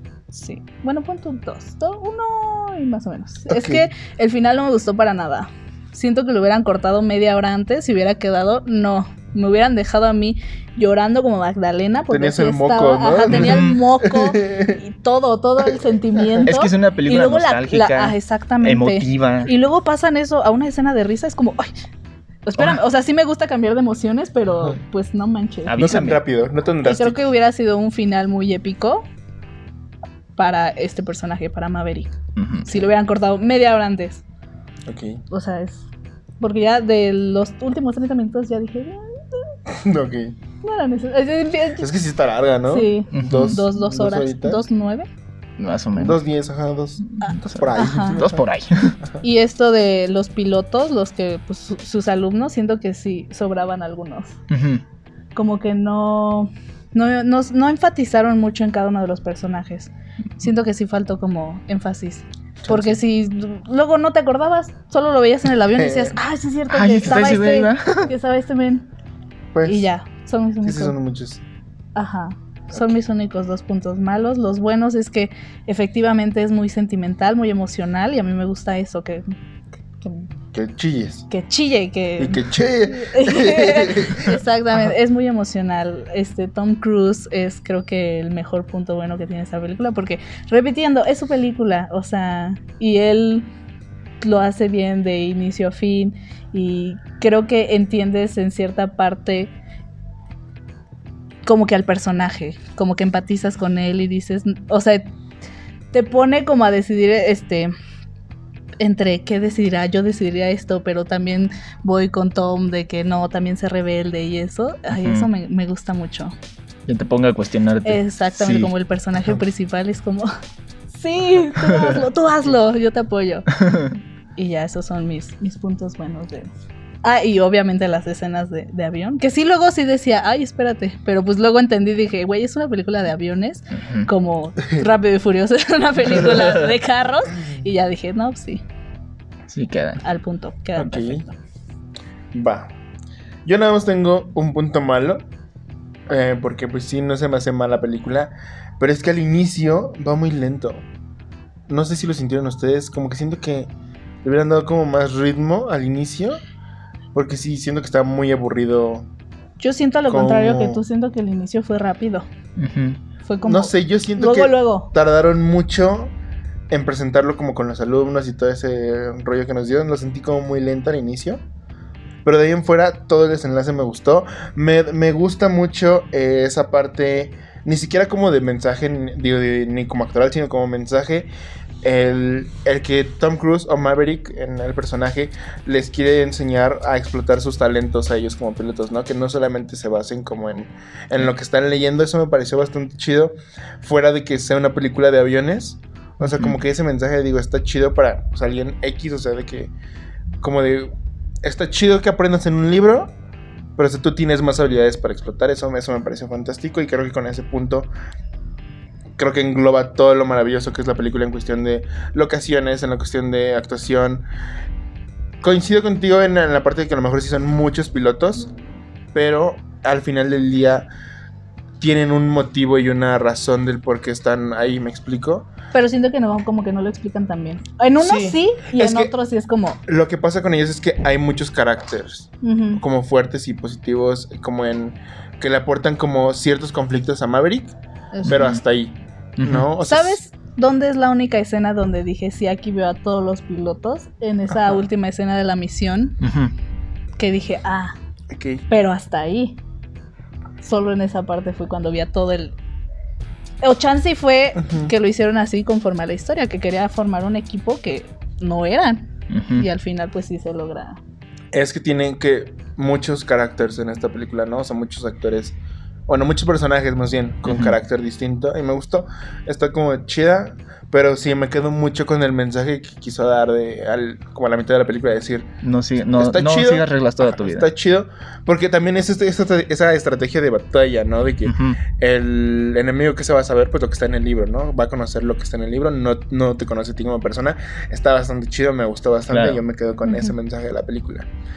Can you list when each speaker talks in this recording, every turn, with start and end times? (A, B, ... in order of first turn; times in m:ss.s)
0:00.3-0:21.7 A
0:03.5-0:03.9 B
0:12.1-0:14.8 B
0:13.3-0:13.8 C
0:15.7-0:16.5 B
0:16.5-0:19.5 C
0:22.4-0:25.8 A
0:25.7-0:26.2 C
0:25.8-0:27.3 B
0:26.9-0:29.1 A
0:30.4-0:34.2 A
0:32.4-0:32.7 C
0:34.9-0:35.2 B
0:35.3-0:35.8 A
0:36.4-0:39.0 A
0:39.7-0:40.4 B
0:40.6-0:41.9 A
0:41.8-0:44.6 B
0:42.7-0:45.1 A
0:43.1-0:43.6 C
0:45.6-0:46.2 C
0:46.0-0:48.4 B
0:47.2-0:48.3 A
0:47.4-0:49.0 C
0:49.2-0:54.4 A
0:54.5-0:54.8 C
0:55.4-1:08.9 A
1:02.6-1:03.0 B
1:05.7-1:06.2 B
1:06.7-1:08.1 C
1:09.5-1:09.9 B
1:09.6-1:11.0 A
1:10.6-1:11.4 B
1:12.0-1:19.2 A
1:20.0-1:20.3 A
1:20.5-1:21.3 B
1:21.3-1:33.5 A
1:22.2-1:24.4 B
1:34.2-1:39.5 A
1:41.4-1:45.1 A
1:45.9-1:47.7 A
1:48.8-1:56.3 A
1:54.9-1:55.3 C
1:56.9-1:58.7 C
1:57.8-2:00.3 A
2:00.9-2:03.5 A
2:01.6-2:02.0 C
2:03.6-2:04.0 C
2:04.4-2:06.5 A
2:07.0-2:18.6 A
2:13.8-2:14.1 C
2:19.5-2:20.0 C
2:20.0-2:21.4 A
2:20.8-2:21.2 B
2:22.3-2:22.7 B
2:23.4-2:25.2 B
2:26.1-2:30.9 B
2:31.7-2:33.7 B
2:34.2-2:36.4 B
2:37.1-2:39.1 B
2:39.6-2:42.3 A
2:40.1-2:40.8 B
2:42.6-2:43.0 C
2:43.3-2:44.9 A
2:43.4-2:46.1 B
2:46.7-2:51.4 B
2:52.2-3:01.3 B
3:01.8-3:19.7 B
3:16.2-3:16.6 C
3:20.4-3:23.2 B
3:23.8-3:27.9 B
3:29.2-3:34.3 B
3:35.4-3:38.5 B
3:39.1-3:40.9 B
3:41.8-3:45.5 B
3:45.7-3:49.8 A
3:48.0-3:49.1 B
3:49.8-4:00.2 B
3:52.4-3:52.8 A
3:58.1-3:58.4 A
3:58.3-3:58.6 C
3:59.4-3:59.7 C
3:59.8-4:06.2 A
4:06.2-4:06.5 C
4:07.2-4:08.0 A
4:08.3-4:08.7 B
4:08.7-4:09.6 A
4:10.6-4:12.6 A
4:13.6-4:21.0 A
4:14.6-4:14.9 B
4:19.3-4:19.7 C
4:21.5-4:35.5 B
4:27.5-4:27.8 C
4:35.6-4:37.7 C
4:36.1-4:51.3 B
4:41.4-4:41.8 C
4:49.3-4:49.6 C
4:50.0-4:50.3 A